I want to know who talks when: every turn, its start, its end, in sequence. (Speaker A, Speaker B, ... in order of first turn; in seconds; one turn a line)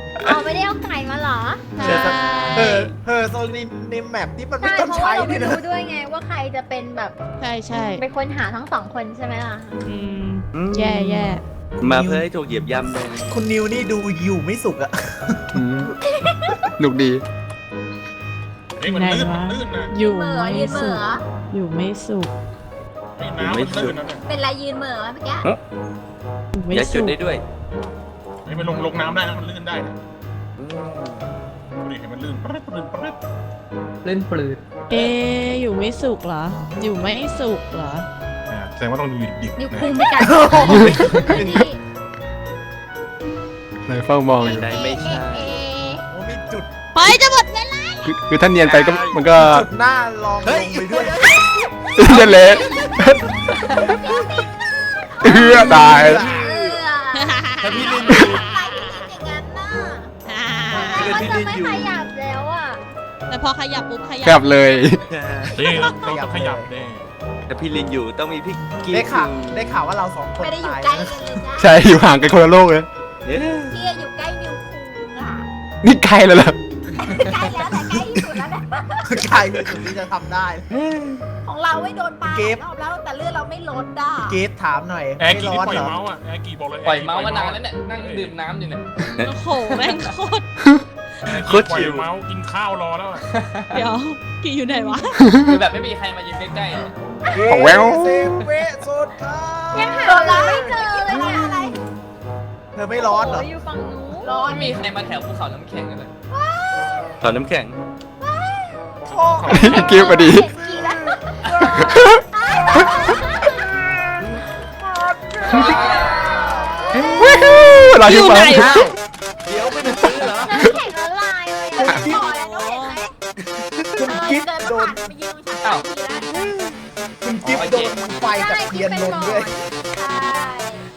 Speaker A: 0.2-1.7
Speaker B: 1.7-2.9
Speaker C: 1.8-5.6
Speaker A: 4.6-7.2
Speaker B: 7.4-8.0
Speaker A: 7.9-9.8
Speaker B: 9.8-11.4
Speaker D: 10.5-11.2
Speaker C: 11.8-12.2
Speaker D: 11.8-13.3
Speaker C: 13.3-15.9
Speaker E: 15.5-15.9
Speaker F: 16.0-16.7
Speaker E: 16.8-17.2
Speaker G: 18.8-19.9
Speaker B: 18.8-22.3
Speaker F: 20.0-21.2
Speaker G: 23.2-24.2
Speaker D: 23.4-24.1
Speaker F: 24.2-25.4
Speaker B: 26.5-27.1
Speaker D: 26.7-27.4
Speaker G: 28.4-30.0
Speaker D: 30.6-31.3
Speaker G: 31.8-33.1
Speaker H: 34.0-34.6
Speaker B: 34.9-38.0
Speaker G: 38.5-39.9
Speaker F: 39.6-41.8
Speaker C: 40.2-41.3
Speaker D: 40.6-41.7
Speaker E: 43.9-44.8
Speaker D: 44.4-45.6
Speaker F: 44.4-46.0
Speaker C: 46.1-46.7
Speaker B: 46.9-48.1
Speaker E: 48.0-49.7
Speaker D: 48.6-49.3
Speaker C: 49.3-51.4
Speaker D: 50.4-52.2
Speaker E: 51.9-53.3
Speaker B: 52.1-52.6
Speaker F: 52.5-52.9
Speaker F: 53.6-60.1
Speaker E: 55.2-56.2
Speaker C: 55.2-56.8
Speaker B: 57.1-59.1
Speaker D: 57.6-58.5
Speaker B: 60.2-61.2
Speaker C: 60.7-61.5
Speaker A: 60.7-62.8
Speaker D: 60.9-61.9
Speaker B: 63.3-64.6
Speaker E: 64.2-65.0
Speaker D: 65.1-65.7
Speaker G: 65.5-67.1
Speaker C: 65.6-66.7
Speaker D: 67.5-69.6
Speaker C: 68.8-71.4
Speaker F: 70.4-71.9
Speaker E: 71.6-72.9
Speaker D: 73.2-73.8
Speaker F: 73.7-75.4
Speaker E: 75.8-76.6
Speaker F: 76.9-79.3
Speaker C: 77.0-78.0
Speaker C: 79.0-80.7
Speaker D: 80.7-81.2
Speaker F: 81.4-84.4
Speaker C: 82.2-82.6
Speaker C: 84.2-86.0
Speaker G: 85.2-88.3
Speaker H: 86.8-88.9
Speaker B: 89.2-90.4
Speaker H: 89.7-90.1
Speaker G: 91.2-93.2
Speaker D: 91.4-92.1
Speaker H: 93.3-93.9
Speaker B: 93.7-95.3
Speaker E: 95.3-95.5
Speaker H: 95.4-97.0
Speaker F: 97.2-97.6
Speaker C: 97.3-101.4
Speaker E: 97.5-98.3
Speaker A: 99.7-101.7
Speaker F: 99.7-101.8
Speaker C: 102.7-103.5
Speaker A: 102.9-104.3
Speaker F: 104.2-104.9
Speaker H: 104.2-106.1
Speaker F: 106.3-107.2
Speaker D: 107.2-107.8
Speaker F: 108.2-108.8
Speaker G: 109.1-110.1
Speaker C: 109.1-111.8
Speaker E: 109.5-110.5
Speaker A: 109.5-114.3
Speaker F: 110.6-111.8
Speaker H: 111.4-111.7
Speaker E: 111.8-112.2
Speaker F: 112.6-113.5
Speaker C: 112.8-113.7
Speaker D: 114.2-114.5
Speaker C: 114.7-117.2
Speaker A: 115.4-117.1
Speaker H: 115.5-116.3
Speaker F: 115.6-117.2
Speaker B: 117.2-118.9
Speaker E: 117.2-118.9
Speaker D: 119.4-120.6
Speaker F: 120.0-120.7
Speaker A: 120.0-122.2
Speaker F: 121.8-123.2
Speaker C: 121.8-122.2
Speaker B: 122.2-123.0
Speaker D: 123.5-123.9
Speaker C: 124.0-125.0
Speaker F: 124.0-126.4
Speaker D: 126.3-126.7
Speaker C: 127.2-129.6
Speaker H: 127.4-128.0
Speaker A: 128.2-129.6
Speaker F: 129.9-130.8